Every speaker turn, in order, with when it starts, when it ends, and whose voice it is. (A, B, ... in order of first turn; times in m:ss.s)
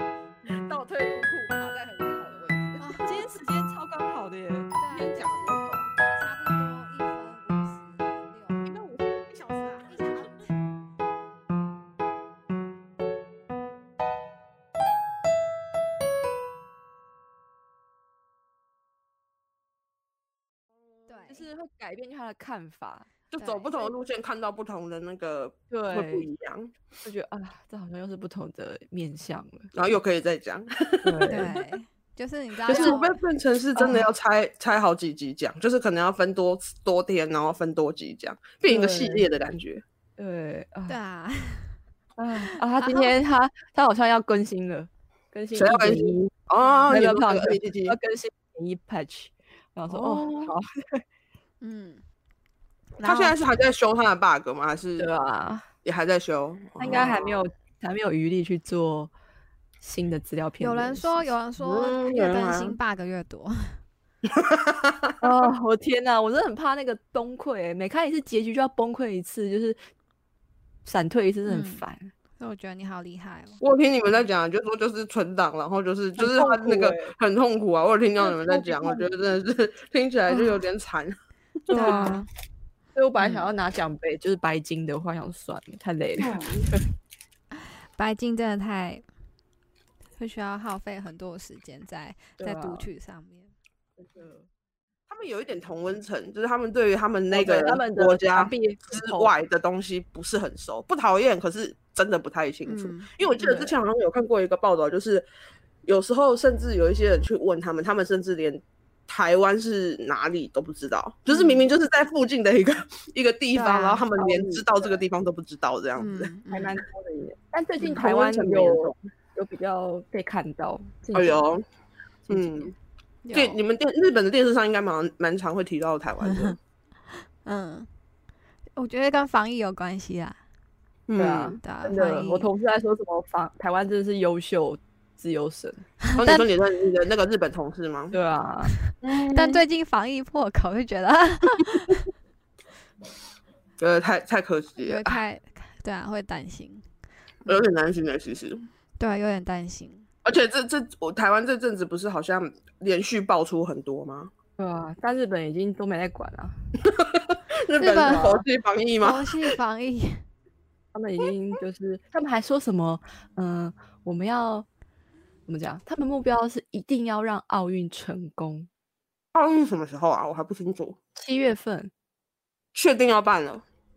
0:00.5-0:03.1 A
0:02.8-0:03.2 B
0:03.0-0:04.7 C
0:04.8-0:08.6 B
0:04.9-0:05.9 A
0:08.6-0:10.3 A
0:09.7-0:10.5 B
0:21.1-0:21.4 B
0:21.3-0:23.1 C
0:23.3-0:26.7 A
0:23.4-0:23.9 B
0:25.7-0:26.3 C
0:27.0-0:29.7 C
0:29.7-0:31.5 A
0:31.0-0:31.6 C
0:31.3-0:33.1 B
0:32.6-0:33.0 C
0:32.6-0:39.8 A
0:33.8-0:34.0 C
0:33.8-0:34.0 B
0:38.7-0:39.3 C
0:40.2-0:41.0 C
0:40.9-0:41.8 B
0:42.2-0:46.3 C
0:42.4-0:43.1 B
0:45.5-0:48.0 A
0:46.6-0:46.9 B
0:46.9-0:51.0 C
0:50.0-0:50.5 A
0:51.6-0:52.0 B
0:53.0-0:53.5 B
0:53.0-0:55.1 A
0:55.0-0:55.7 C
0:55.8-0:57.4 A
0:56.8-0:59.1 C
0:59.8-1:01.3 C
1:00.6-1:03.8 B
1:01.6-1:02.8 A
1:04.2-1:05.2 A
1:05.2-1:09.8 C
1:10.8-1:12.1 C
1:11.5-1:11.8 B
1:12.4-1:13.6 B
1:13.6-1:21.2 A
1:16.2-1:17.1 C
1:18.3-1:19.1 C
1:21.7-1:22.3 C
1:21.7-1:22.3 B
1:21.7-1:22.1 A
1:22.9-1:26.8 C
1:26.2-1:26.7 A
1:28.0-1:29.0 B
1:30.2-1:33.5 B
1:32.4-1:32.9 C
1:35.1-1:45.2 A
1:37.3-1:39.3 C
1:42.6-1:43.0 B
1:43.4-1:43.7 C
1:45.8-1:56.8 A
1:51.3-1:51.6 B
1:53.5-1:54.1 B
1:54.2-1:55.0 C
1:56.0-1:56.7 B
1:56.5-2:01.5 C
1:57.8-1:59.0 A
2:01.1-2:01.6 A
2:02.2-2:02.7 C
2:02.3-2:02.7 A
2:03.2-2:03.6 B
2:03.3-2:06.6 A
2:06.2-2:06.5 B
2:07.4-2:07.9 B
2:08.8-2:10.4 B
2:11.1-2:11.6 A
2:11.2-2:15.9 C
2:11.6-2:12.5 B
2:16.2-2:18.2 A
2:16.2-2:16.4 B
2:18.1-2:18.7 C
2:18.7-2:22.0 B
2:19.0-2:19.6 A
2:23.8-2:25.2 A
2:24.8-2:26.8 B
2:27.4-2:28.6 A
2:29.0-2:30.0 B
2:30.2-2:34.3 A
2:34.6-2:36.5 C
2:36.8-2:39.5 A
2:37.8-2:38.4 B
2:39.0-2:40.2 B
2:40.9-2:44.6 C
2:45.5-2:48.7 C
2:49.3-2:51.0 A
2:51.1-2:51.9 C
2:52.7-2:53.6 A